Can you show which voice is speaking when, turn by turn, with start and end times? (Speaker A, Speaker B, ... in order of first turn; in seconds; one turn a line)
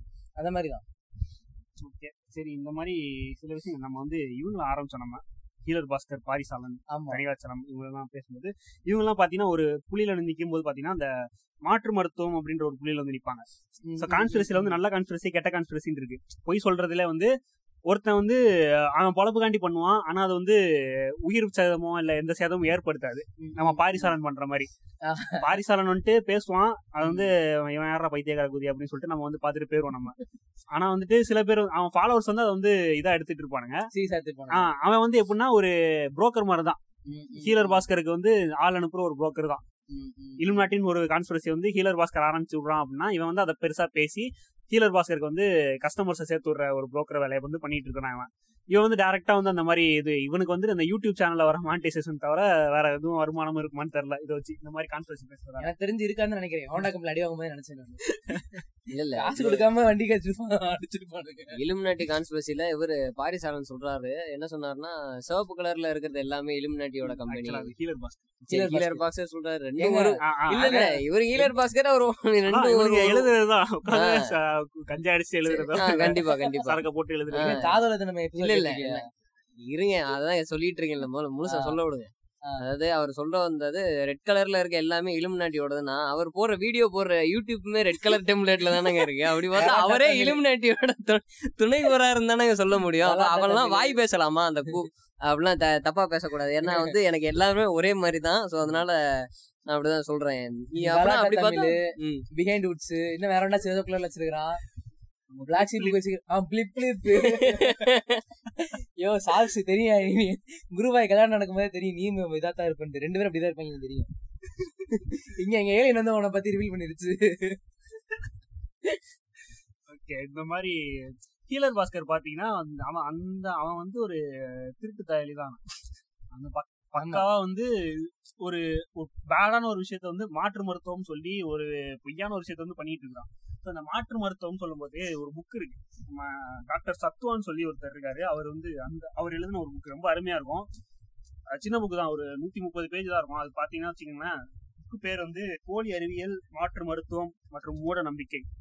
Speaker A: 0.4-0.8
Speaker B: 1.8-11.1
Speaker A: 6.9-7.2
Speaker B: 11.6-13.4
Speaker A: 13.8-14.8
Speaker B: 14.0-17.3
Speaker B: 17.9-18.4
Speaker B: 18.9-20.6
Speaker B: 21.2-24.7
Speaker A: 23.4-24.1
Speaker A: 25.0-25.5
Speaker B: 25.4-30.1
Speaker A: 27.0-27.3
Speaker B: 30.7-33.9
Speaker A: 33.9-34.7
Speaker B: 34.5-36.8
Speaker A: 37.1-37.8
Speaker B: 37.4-39.6
Speaker A: 39.9-40.6
Speaker B: 40.4-55.7
Speaker A: 55.6-58.6
Speaker B: 58.3-58.6
Speaker C: 58.9-59.7
Speaker A: 59.1-61.6
Speaker C: 61.5-67.7
Speaker B: 67.3-68.3
Speaker A: 68.5-69.0
Speaker C: 68.5-73.3
Speaker A: 69.8-70.2
Speaker B: 70.2-71.0
Speaker B: 72.5-77.6
Speaker C: 73.9-74.3
Speaker A: 75.5-76.3
Speaker C: 75.7-77.8
Speaker A: 77.4-79.0
Speaker C: 78.4-79.0
Speaker C: 79.6-102.2
Speaker A: 81.4-81.8
Speaker A: 89.5-90.4
Speaker A: 93.0-94.0
Speaker A: 96.7-96.9
Speaker A: 100.7-104.6
Speaker B: 105.3-106.0
Speaker A: 105.5-107.9
Speaker C: 107.2-108.2
Speaker A: 108.6-117.6
Speaker B: 119.9-125.6
Speaker B: 126.3-140.7
Speaker A: 127.0-127.2
Speaker B: 141.5-148.4